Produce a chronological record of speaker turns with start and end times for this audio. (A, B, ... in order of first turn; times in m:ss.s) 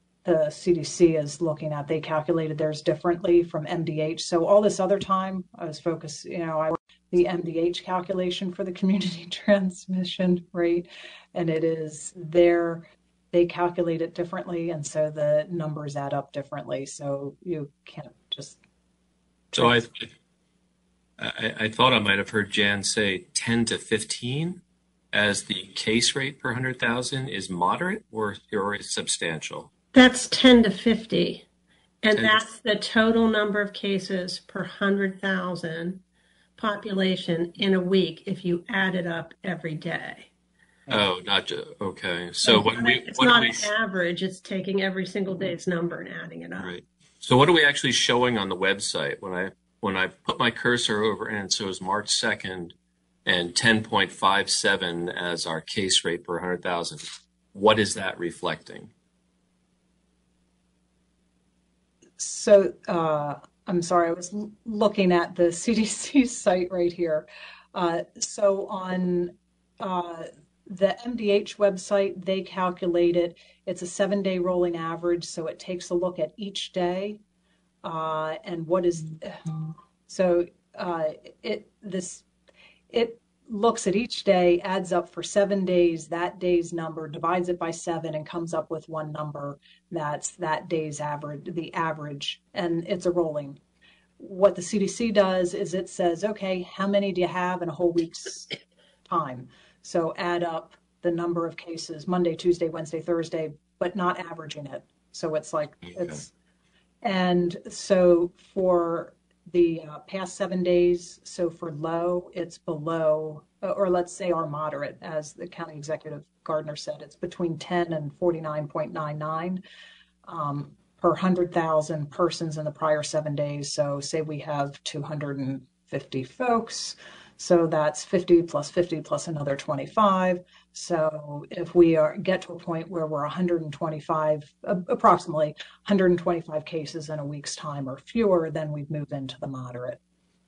0:00.2-0:18.6 A
0:19.5-0:19.8 A
0:19.6-0:20.1 B
0:21.2-0:24.6 B
0:25.1-0:29.7 B
0:29.9-0:31.4 C
0:32.0-0:36.0 C
0:32.1-0:32.4 B
0:36.6-0:40.3 C
0:40.9-0:43.7 B
0:42.4-0:46.7 C
0:46.6-0:52.7 B
0:53.2-0:58.9 B
1:02.2-1:17.2 A
1:17.8-1:19.5 A
1:20.1-1:22.2 A
1:22.9-1:33.6 A
1:34.2-1:38.5 A
1:39.0-1:46.3 A
1:45.8-1:46.2 B
1:47.0-1:59.6 A
2:00.2-2:20.0 A